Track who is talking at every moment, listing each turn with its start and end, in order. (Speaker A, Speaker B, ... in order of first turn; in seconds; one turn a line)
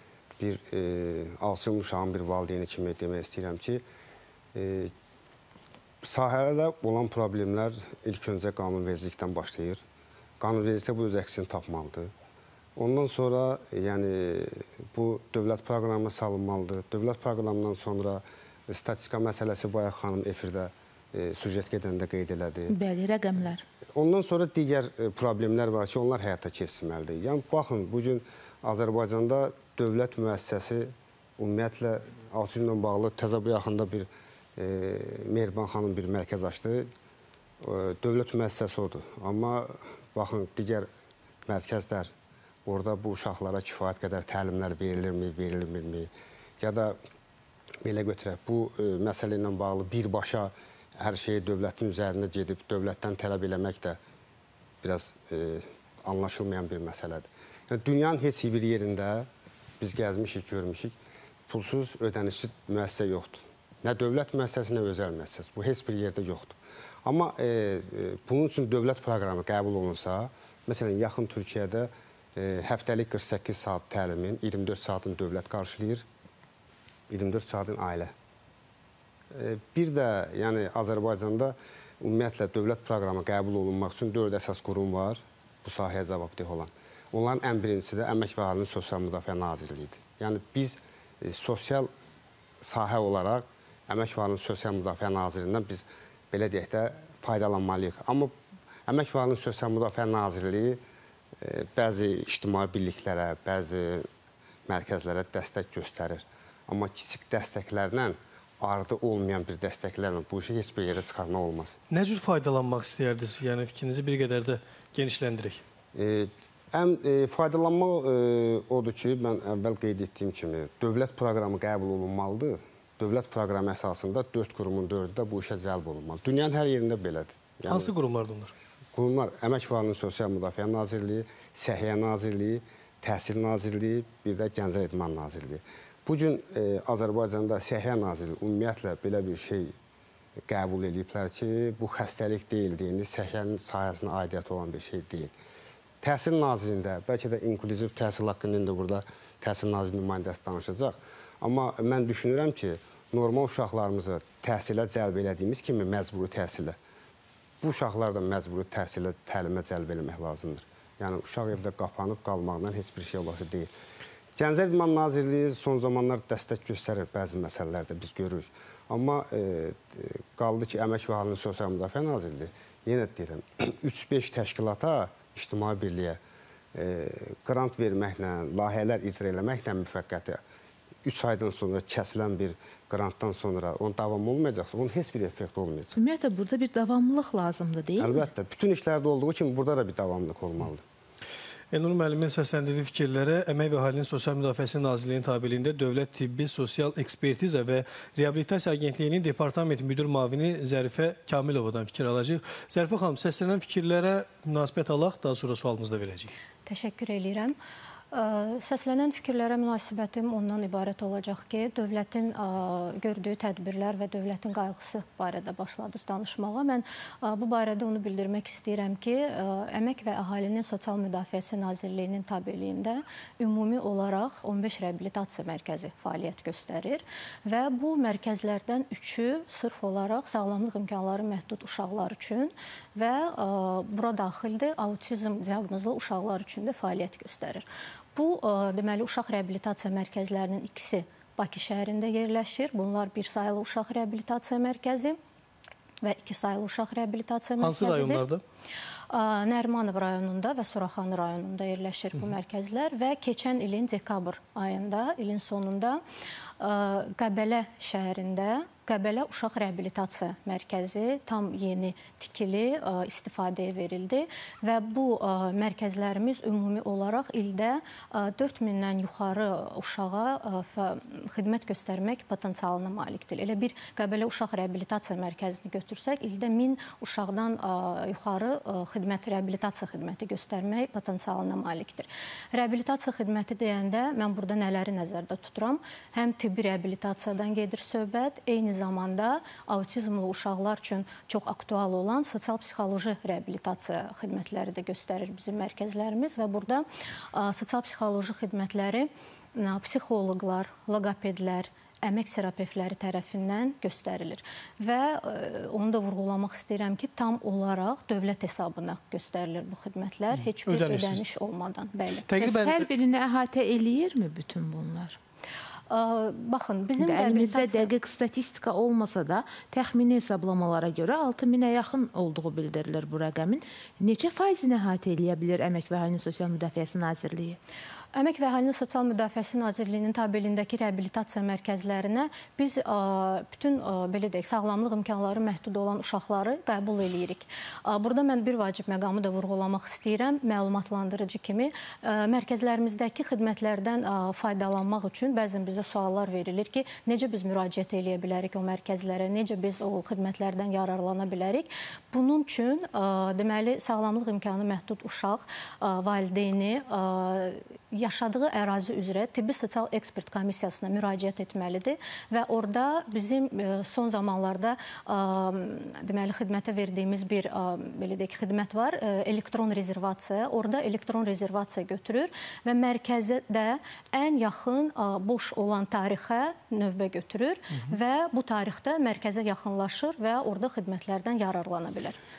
Speaker A: 0.4-3.8
Speaker A: 4.5-4.9
Speaker A: 6.0-9.8
Speaker A: 10.4-12.1
Speaker A: 12.8-22.7
Speaker B: 22.7-23.6
Speaker A: 23.9-36.9
Speaker A: 37.6-40.9
Speaker A: 41.5-42.1
Speaker A: 42.6-47.0
Speaker A: 47.8-54.0
Speaker A: 54.8-59.3
Speaker A: 59.8-60.9
Speaker A: 61.5-76.0
Speaker A: 77.1-78.1
Speaker A: 79.3-91.9
Speaker A: 92.6-98.3
Speaker A: 98.9-100.8
Speaker A: 101.4-104.0
Speaker A: 104.7-111.8
Speaker C: 111.9-115.6
Speaker A: 115.9-127.9
Speaker C: 127.7-128.5
Speaker A: 128.9-139.7
Speaker A: 140.5-145.3
Speaker A: 146.0-156.8
Speaker A: 157.6-163.7
Speaker A: 164.3-176.2
Speaker A: 176.7-180.4
Speaker A: 181.0-185.9
Speaker B: 185.9-188.2
Speaker A: 188.0-190.8
Speaker C: 191.7-206.3
Speaker D: 206.7-207.6
Speaker D: 208.1-245.2
Speaker D: 246.0-248.2
Speaker C: 247.6-248.4
Speaker D: 249.1-256.0
Speaker D: 256.6-312.2
Speaker C: 310.4-311.2
Speaker C: 312.3-312.8
Speaker B: 312.4-315.2
Speaker D: 315.9-317.9
Speaker B: 317.0-327.6
Speaker D: 328.1-382.2